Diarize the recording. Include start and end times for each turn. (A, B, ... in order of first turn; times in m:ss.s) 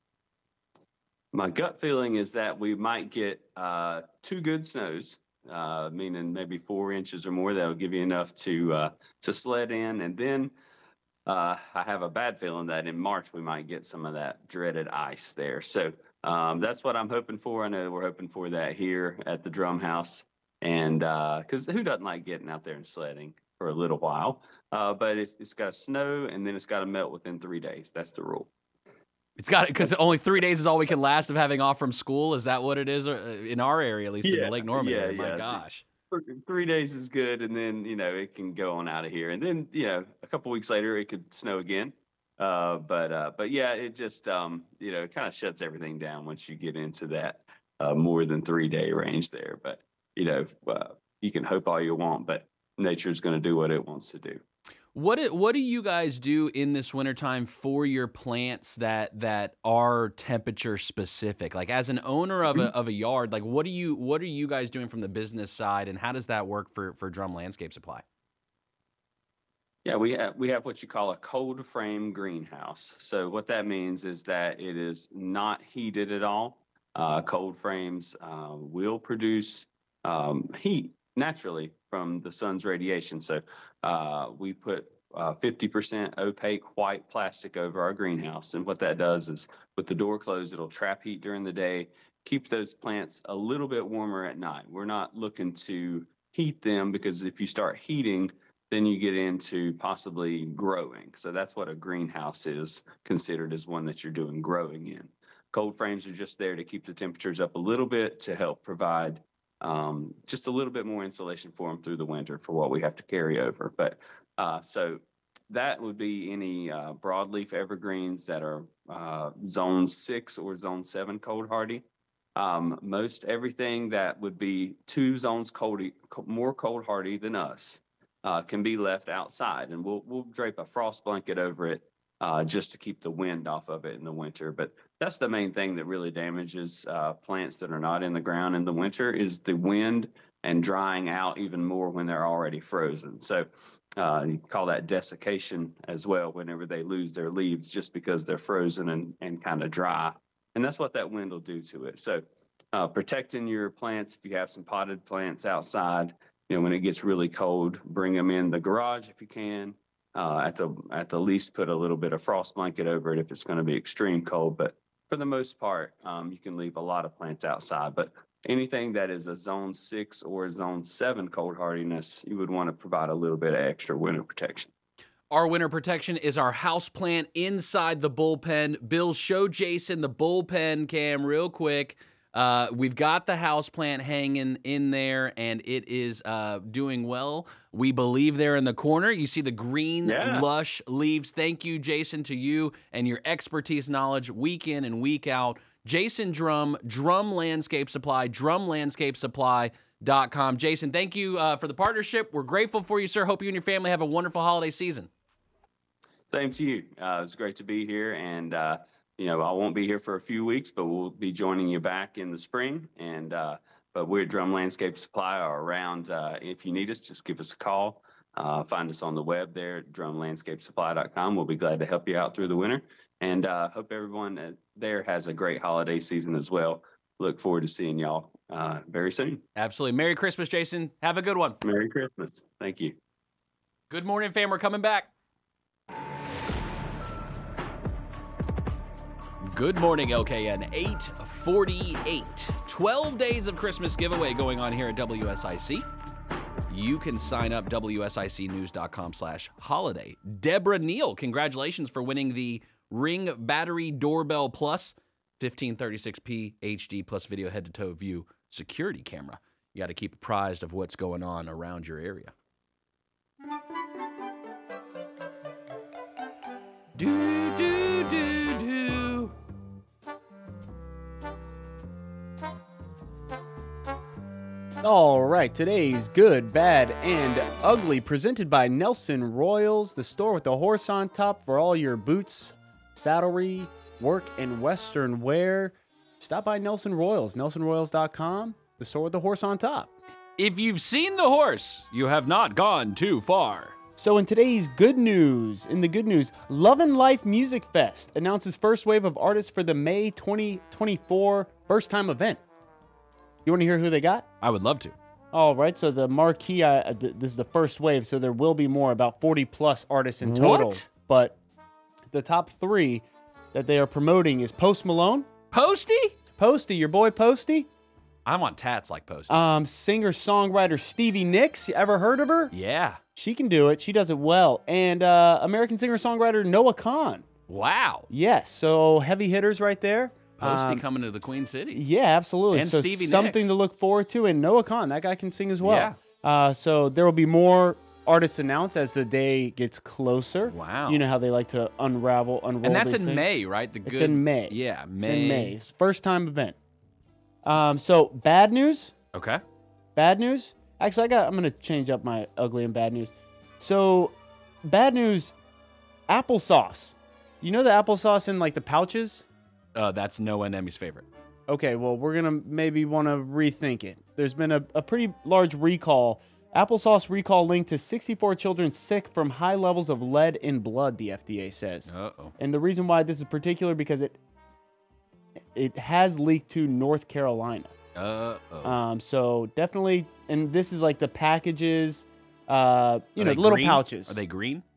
0:01.3-0:10.5 A
0:11.2-0:28.5 A
0:29.4-0:35.8 B
0:34.2-0:54.4 A
0:54.9-1:08.0 B
1:09.8-2:01.8 A
2:02.4-2:54.7 A
2:55.3-3:25.1 B
3:10.0-3:10.5 A
3:26.3-3:49.4 A
3:49.6-3:51.6 B
3:51.6-3:53.0 A
3:53.9-3:55.1 B
3:59.4-4:05.9 B
4:06.7-4:22.3 B
4:27.0-4:29.3 B
4:34.8-4:49.9 C
4:50.4-4:53.8 B
4:54.0-5:02.4 C
5:03.4-5:04.3 C
5:04.4-5:05.0 B
5:05.3-5:11.4 C
5:10.2-5:10.8 B
5:12.1-5:15.3 C
5:15.5-5:16.2 B
5:16.4-5:17.7 C
5:18.2-5:19.4 B
5:19.3-5:22.5 C
5:22.5-5:23.0 B
5:23.2-5:27.2 C
5:27.5-5:28.1 B
5:28.1-5:30.8 C
5:30.4-5:31.8 B
5:31.7-5:46.6 C
5:32.5-5:33.5 B
5:35.6-5:36.0 B
5:40.5-5:41.0 B
5:42.6-5:45.5 B
5:47.4-5:48.9 C
5:49.1-5:49.4 B
5:50.0-5:55.3 C
5:56.1-5:59.2 C
5:59.7-6:01.1 B
6:01.5-6:14.2 C
6:11.9-6:12.3 B
6:15.5-6:17.7 C
6:17.9-6:18.8 B
6:18.6-6:24.1 C
6:23.2-6:24.6 B